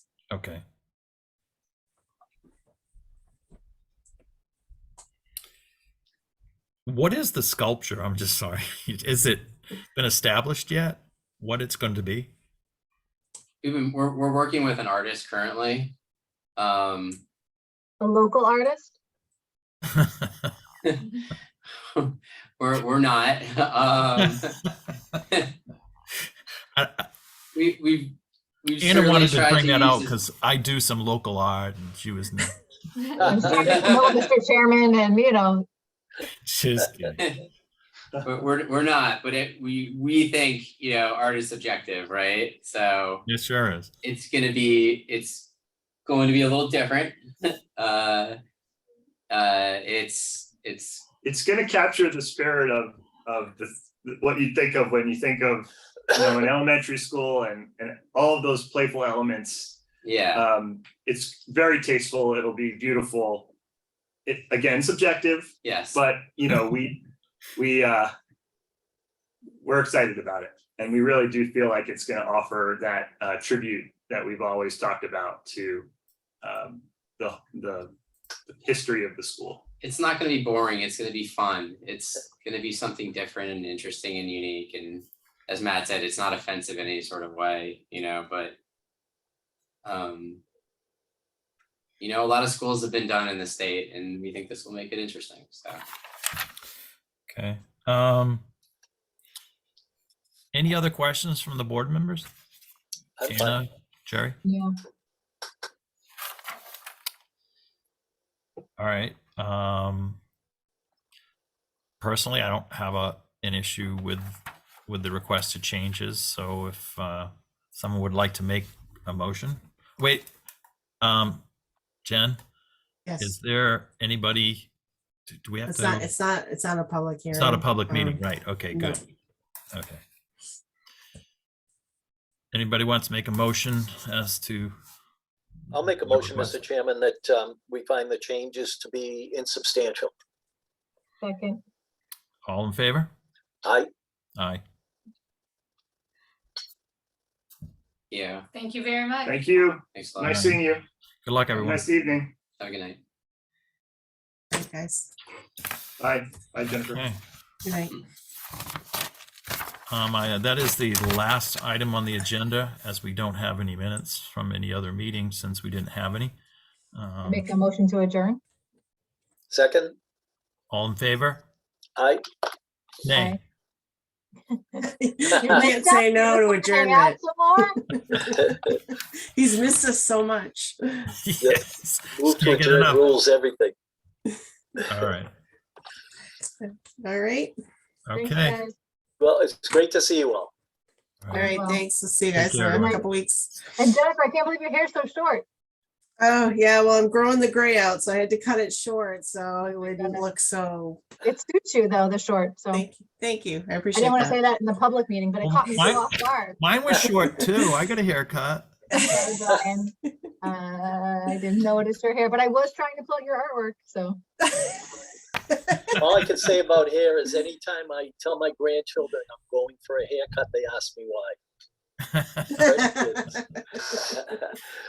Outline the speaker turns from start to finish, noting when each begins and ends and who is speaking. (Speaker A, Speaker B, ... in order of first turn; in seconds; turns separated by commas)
Speaker A: 0.3-0.6, Speaker A: 6.8-12.3, Speaker B: 13.6-15.9, Speaker B: 16.6-17.2, Speaker C: 18.0-18.9, Speaker A: 19.9-20.5, Speaker B: 21.7-24.6, Speaker A: 26.7-27.1, Speaker B: 27.5-30.1, Speaker A: 28.8-32.6, Speaker C: 33.0-35.6, Speaker D: 33.2-33.9, Speaker B: 33.5-34.2, Speaker A: 36.3-37.2, Speaker B: 38.2-43.2, Speaker A: 43.2-43.9, Speaker B: 44.0-45.5, Speaker B: 46.0-48.4, Speaker B: 49.3-51.0, Speaker E: 51.2-59.8, Speaker B: 60.0-60.5, Speaker E: 60.3-63.5, Speaker E: 64.2-67.0, Speaker B: 65.6-66.0, Speaker E: 67.5-68.1, Speaker E: 69.6-75.9, Speaker E: 76.4-77.9, Speaker E: 78.5-79.6, Speaker B: 79.8-88.5, Speaker B: 89.8-90.4, Speaker B: 92.0-95.8, Speaker A: 97.3-98.4, Speaker A: 100.5-102.3, Speaker D: 103.2-103.5, Speaker A: 103.2-104.4, Speaker C: 104.4-104.7, Speaker A: 108.8-110.2, Speaker A: 112.0-120.3, Speaker A: 121.0-121.4, Speaker A: 122.0-122.4, Speaker F: 123.0-123.3, Speaker A: 123.2-124.7, Speaker A: 125.3-126.1, Speaker F: 125.7-128.2, Speaker A: 127.3-129.0, Speaker F: 128.7-129.0, Speaker A: 129.7-130.0, Speaker A: 132.5-134.7, Speaker D: 135.7-140.1, Speaker A: 135.8-136.6, Speaker C: 141.2-141.6, Speaker A: 142.4-143.1, Speaker D: 143.6-143.9, Speaker A: 144.4-144.6, Speaker B: 148.1-148.4, Speaker E: 149.2-150.8, Speaker B: 149.9-150.4, Speaker A: 150.2-150.6, Speaker A: 151.2-151.8, Speaker E: 151.6-152.3, Speaker B: 152.6-153.0, Speaker F: 154.5-155.1, Speaker E: 156.0-157.0, Speaker A: 156.7-157.2, Speaker F: 157.6-157.9, Speaker A: 159.9-166.3, Speaker A: 166.9-167.5, Speaker C: 167.2-168.4, Speaker D: 169.5-169.9, Speaker A: 170.7-171.4, Speaker D: 172.0-172.2, Speaker A: 173.0-173.4, Speaker C: 173.1-173.4, Speaker C: 174.5-174.8, Speaker F: 174.8-178.6, Speaker C: 175.4-177.8, Speaker D: 178.3-178.8, Speaker F: 179.3-181.1, Speaker A: 181.2-183.1, Speaker D: 182.1-183.7, Speaker A: 184.9-185.3, Speaker F: 186.6-187.5, Speaker A: 188.1-188.6, Speaker C: 188.1-188.7, Speaker D: 189.2-190.5, Speaker A: 191.2-191.5, Speaker F: 191.3-193.6, Speaker C: 191.4-191.8, Speaker A: 192.3-193.0, Speaker C: 192.7-193.0, Speaker C: 193.8-195.4, Speaker F: 196.2-201.1, Speaker C: 199.9-200.2, Speaker C: 201.2-202.8, Speaker F: 202.7-204.4, Speaker C: 203.9-206.6, Speaker A: 205.4-208.7, Speaker C: 208.9-214.2, Speaker F: 209.0-209.3, Speaker D: 215.9-221.3, Speaker A: 222.2-222.6, Speaker D: 222.6-223.4, Speaker D: 223.9-224.4